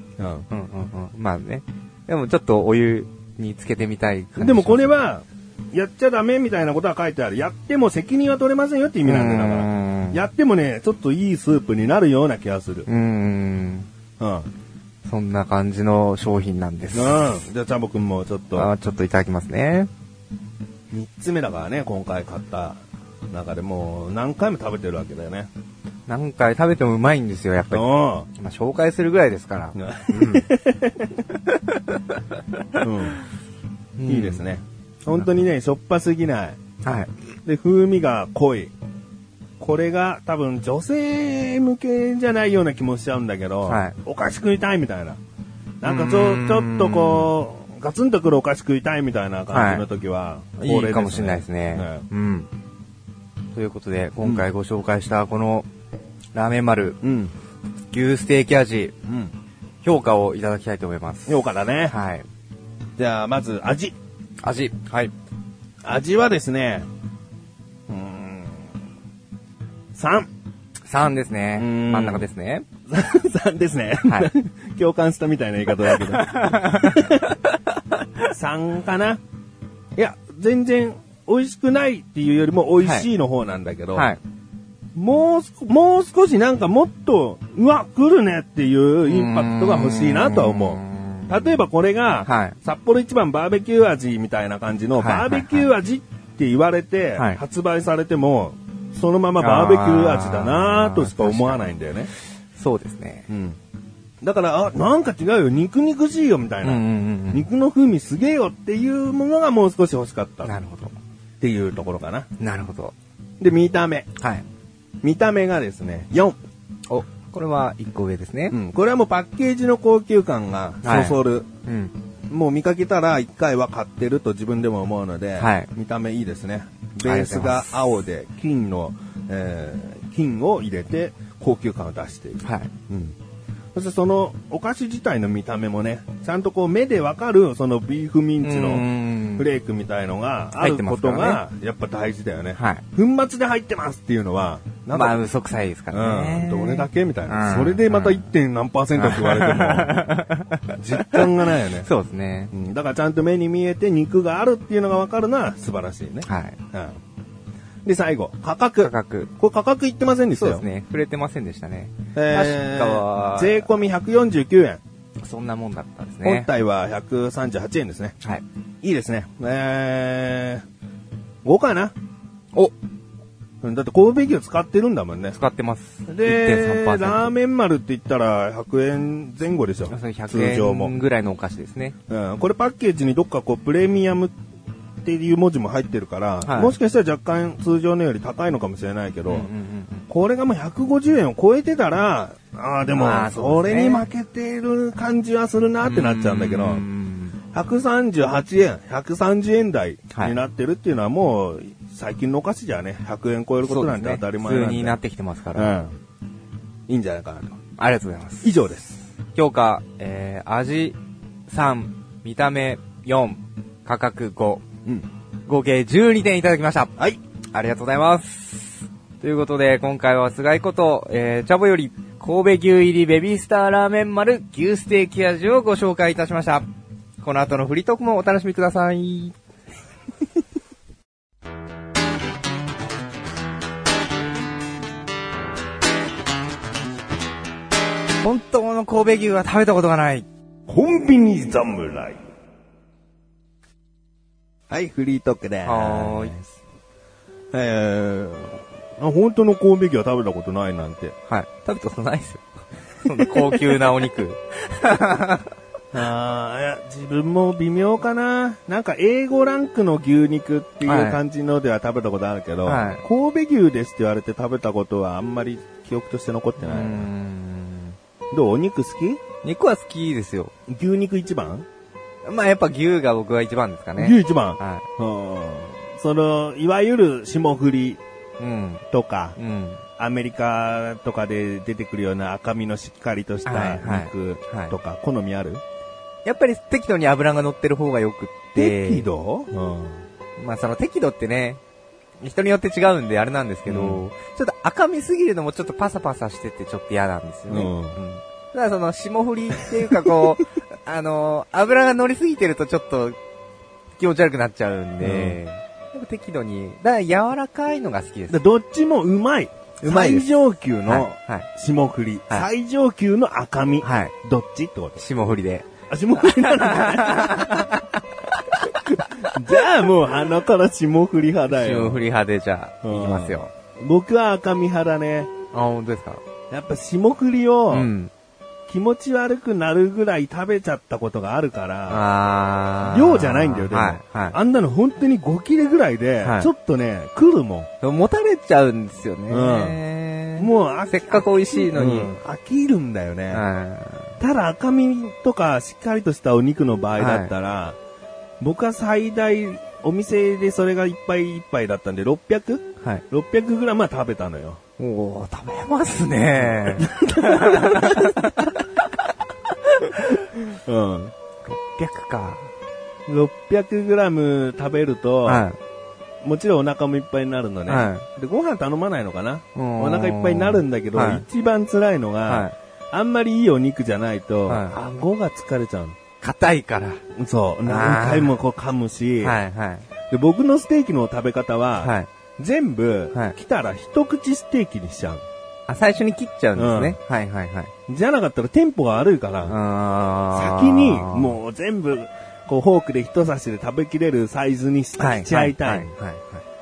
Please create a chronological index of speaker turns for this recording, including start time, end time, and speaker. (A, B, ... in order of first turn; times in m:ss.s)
0:00.2-0:00.4 A
0:00.5-0:05.0 B
0:04.4-0:12.9 A
0:09.0-0:10.2 B
0:12.9-0:13.9 B
0:14.2-0:14.5 A
0:15.0-0:17.4 B
0:16.9-0:18.7 A
0:18.5-0:19.9 B
0:20.9-0:22.8 A
0:23.3-0:25.5 A
0:26.1-0:30.5 B
0:27.7-0:28.3 A
0:29.8-0:31.3 A
0:31.5-0:32.2 B
0:32.8-0:33.2 A
0:34.0-0:34.4 B
0:34.0-0:36.6 A
0:36.8-0:37.1 B
0:37.4-0:38.7 A
0:39.6-0:45.2 A
0:43.6-0:43.9 B
0:45.8-0:52.0 A
0:45.8-0:47.3 B
0:49.5-0:49.8 B
0:50.6-0:52.5 B
0:53.5-0:55.7 B
0:56.3-0:57.0 B
0:57.0-0:57.3 A
0:57.9-0:58.9 B
0:59.0-0:59.3 A
0:59.8-1:02.2 B
1:01.3-1:01.9 A
1:03.0-1:04.0 A
1:04.4-1:05.1 B
1:05.8-1:06.9 A
1:07.9-1:08.7 A
1:09.9-1:10.3 A
1:10.9-1:12.6 B
1:11.5-1:12.3 A
1:12.9-1:17.4 A
1:14.0-1:14.3 B
1:15.8-1:17.3 B
1:18.2-1:19.2 A
1:20.0-1:24.1 A
1:22.8-1:23.1 B
1:23.9-1:24.2 B
1:24.9-1:42.1 A
1:29.0-1:31.4 B
1:32.2-1:32.6 B
1:35.0-1:35.7 B
1:37.2-1:37.4 B
1:39.4-1:41.7 B
1:42.6-1:43.3 B
1:43.3-1:43.6 A
1:44.2-1:50.5 A
1:46.6-1:47.5 B
1:50.4-1:51.0 B
1:51.4-1:52.3 A
1:52.4-1:52.9 B
1:53.4-1:54.1 A
1:54.2-1:54.4 B
1:55.0-1:56.4 A
1:56.9-1:58.6 B
1:58.5-2:01.5 A
2:00.8-2:01.9 B
2:02.3-2:13.2 A
2:05.4-2:05.7 B
2:07.0-2:07.9 B
2:12.4-2:12.7 B
2:13.7-2:25.2 A
2:18.4-2:19.5 B
2:20.6-2:21.4 B
2:22.6-2:22.8 B
2:24.9-2:28.2 B
2:25.9-2:30.1 A
2:29.0-2:32.5 B
2:30.7-2:31.9 A
2:32.5-2:37.0 A
2:36.2-2:36.6 B
2:37.8-2:40.6 A
2:38.8-2:39.3 B
2:40.3-2:43.7 B
2:42.1-2:44.8 A
2:45.2-2:46.5 B
2:46.2-2:48.2 A
2:48.8-2:50.6 A
2:51.4-2:51.9 A
2:53.6-2:55.4 A
2:55.3-2:57.3 B
2:56.1-3:01.0 A
2:59.9-3:01.9 B
3:02.1-3:04.3 A
3:05.0-3:09.5 A
3:06.4-3:06.7 B
3:09.3-3:10.0 B
3:10.1-3:16.8 A
3:12.9-3:14.0 B
3:15.8-3:17.4 B
3:17.5-3:25.0 A
3:23.6-3:25.8 B
3:25.5-3:25.9 A
3:26.9-3:27.6 A
3:27.8-3:28.6 B
3:28.4-3:29.0 A
3:29.3-3:31.0 B
3:31.5-3:34.6 B
3:35.5-3:37.0 B
3:37.5-3:46.6 B
3:47.2-3:49.4 B
3:58.2-4:00.2 B
4:00.7-4:02.2 A
4:04.7-4:06.4 A
4:05.6-4:06.4 B
4:07.5-4:11.1 A
4:11.3-4:12.4 B
4:13.0-4:15.5 B
4:13.1-4:13.8 A
4:15.9-4:27.1 A
4:20.8-4:21.2 B
4:22.6-4:23.0 B
4:26.6-4:28.0 B
4:28.3-4:29.2 A
4:29.4-4:30.5 B
4:30.7-4:31.6 A
4:32.2-4:34.9 B
4:34.0-4:38.0 A
4:38.4-4:38.8 B
4:38.9-4:39.4 A
4:39.4-4:39.8 B
4:40.0-4:45.6 A
4:43.4-4:44.7 B
4:46.2-4:49.1 B
4:48.5-4:50.0 A
4:50.4-4:51.6 B
4:52.2-5:03.2 B
4:53.6-4:54.0 A
4:57.5-4:58.0 A
5:04.0-5:08.4 B
5:05.0-5:05.4 A
5:08.3-5:15.0 A
5:09.8-5:10.3 B
5:10.8-5:11.5 B
5:13.8-5:14.1 B
5:15.0-5:15.7 B
5:15.9-5:17.8 A
5:16.2-5:18.0 B
5:18.6-5:22.0 A
5:21.5-5:23.5 B
5:22.8-5:25.3 A
5:25.5-5:26.2 B
5:26.5-5:27.9 A
5:27.7-5:28.1 B
5:28.7-5:32.0 A
5:31.9-5:34.4 B
5:32.8-5:37.7 A
5:36.2-5:36.5 B
5:37.8-5:42.1 B
5:39.3-5:39.8 A
5:40.4-5:43.4 A
5:43.3-5:44.2 B
5:44.2-5:47.8 A
5:47.0-5:47.3 B
5:48.4-5:54.6 A
5:54.8-5:58.6 B
5:56.4-5:58.5 A
5:59.7-6:00.2 B
6:00.0-6:01.1 A
6:01.4-6:02.5 B
6:03.1-6:05.4 A
6:05.2-6:05.6 B
6:06.2-6:16.0 A
6:07.7-6:08.0 B
6:09.6-6:11.2 B
6:12.3-6:12.5 B
6:14.5-6:14.8 B
6:16.2-6:17.0 B
6:17.1-6:19.4 A
6:17.6-6:18.4 B
6:19.2-6:19.9 B
6:20.1-6:25.2 A
6:21.8-6:22.1 B
6:25.7-6:27.7 B
6:26.6-6:27.0 A
6:27.9-6:29.6 A
6:29.4-6:31.4 B
6:30.3-6:35.9 A
6:35.0-6:36.4 B